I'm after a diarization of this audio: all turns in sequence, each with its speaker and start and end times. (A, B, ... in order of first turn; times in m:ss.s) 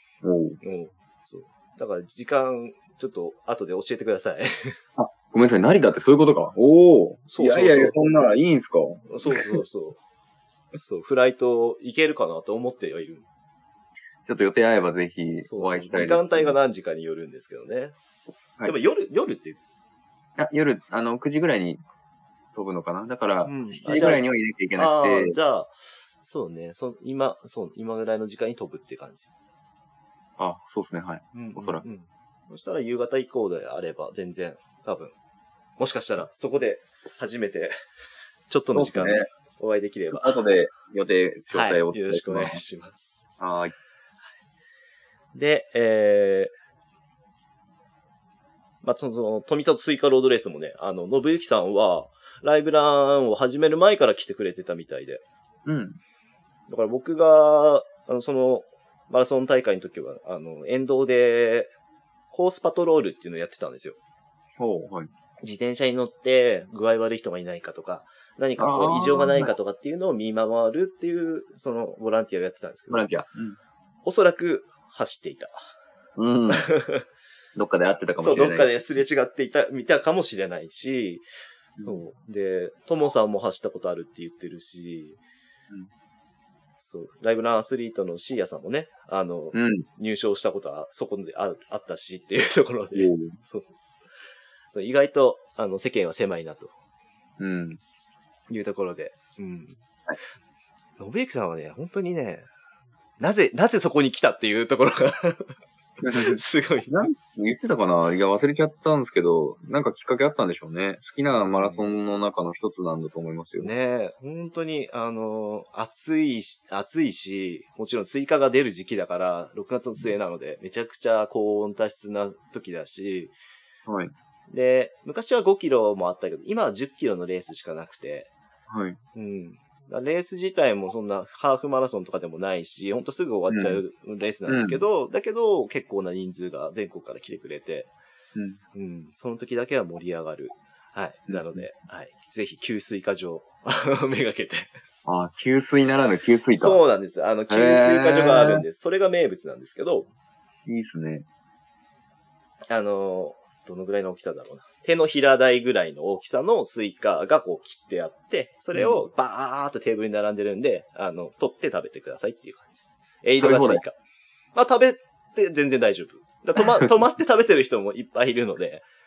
0:00.2-0:00.6 A
0:00.6-0:04.8 B
0:05.0-0:09.6 A
0:07.3-0:08.0 B
0:09.1-0:10.0 B
0:10.8-0:13.2 B
0:14.2-0:16.6 A
0:15.5-0:18.0 B
0:18.6-0:19.6 B
0:20.4-0:21.8 A
0:22.5-0:25.4 A
0:23.5-0:25.7 B
0:26.2-0:29.2 B
0:30.4-0:31.8 A
0:31.3-0:35.1 B
0:35.8-0:37.8 B
0:38.5-0:40.4 B
0:38.7-0:39.3 A
0:40.1-0:42.6 A
0:41.5-0:43.1 B
0:43.4-0:43.7 A
0:45.4-0:46.5 B
0:48.8-0:55.2 B
0:55.7-0:56.0 A
0:56.7-1:01.7 B
1:02.3-1:04.0 B
1:04.6-1:05.1 A
1:05.4-1:13.1 B
1:08.6-1:09.5 A
1:12.9-1:13.6 A
1:14.0-1:15.6 B
1:16.2-1:16.7 A
1:16.5-1:17.0 B
1:17.6-1:18.7 A
1:18.2-1:21.2 B
1:21.8-1:25.2 B
1:26.8-1:33.7 B
1:29.5-1:29.9 A
1:33.0-1:33.4 A
1:34.7-1:36.7 B
1:37.4-1:37.8 A
1:38.5-1:39.8 B
1:41.0-1:42.5 B
1:43.2-1:45.6 B
1:46.0-1:53.7 A
1:46.1-1:47.0 B
1:51.3-1:51.9 B
1:53.6-2:03.3 B
2:03.9-2:04.1 A
2:04.5-2:08.3 B
2:08.7-2:09.0 A
2:09.2-2:17.9 B
2:13.5-2:13.8 A
2:14.5-2:14.8 A
2:18.4-2:18.6 A
2:18.7-2:24.7 B
2:21.3-2:21.7 A
2:25.0-2:26.8 A
2:26.5-2:30.1 B
2:27.5-2:28.6 A
2:30.7-2:31.2 A
2:32.7-2:42.7 B
2:38.8-2:39.0 A
2:43.2-2:44.0 B
2:43.4-2:43.8 A
2:44.5-2:48.9 B